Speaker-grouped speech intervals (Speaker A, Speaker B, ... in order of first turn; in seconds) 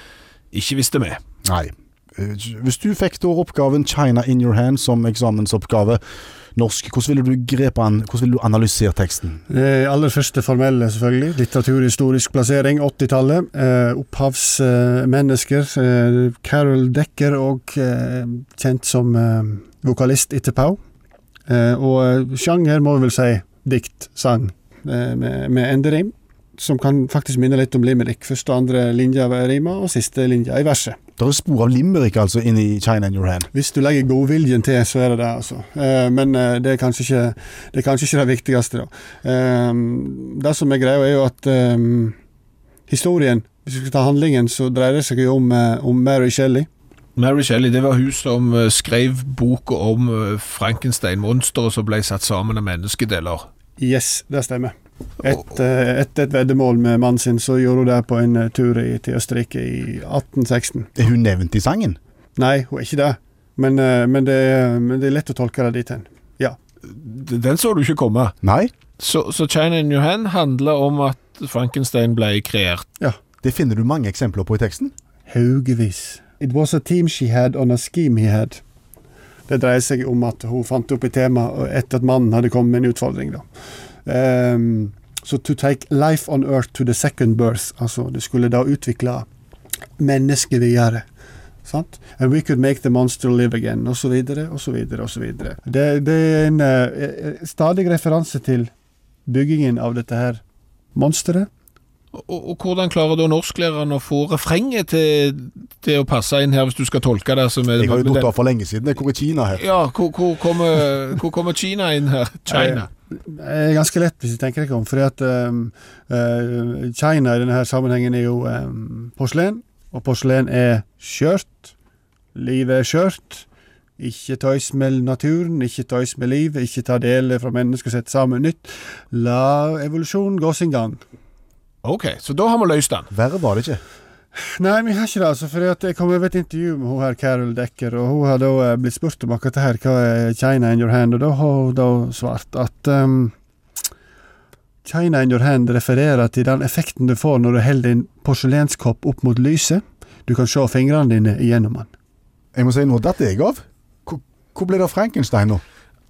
Speaker A: 0.5-1.2, 47.2-53.5, 66.8-68.3, 69.0-72.9, 102.1-108.3, 109.5-112.9, 131.8-133.1
Speaker B: 1.4-6.0, 6.6-9.4, 31.2-33.5, 61.0-62.0, 68.4-68.7, 73.4-74.9, 107.8-109.6, 133.1-133.8, 152.6-155.6
Speaker C: 9.5-20.8, 21.5-31.0, 33.5-42.2, 42.9-46.7, 53.8-60.9, 62.4-66.6, 75.3-78.6, 79.5-83.5, 84.0-89.3, 90.0-91.1, 91.7-98.7, 99.3-100.4, 101.0-101.5, 112.5-121.7, 122.3-123.5, 124.0-131.0, 134.4-143.3, 144.8-151.9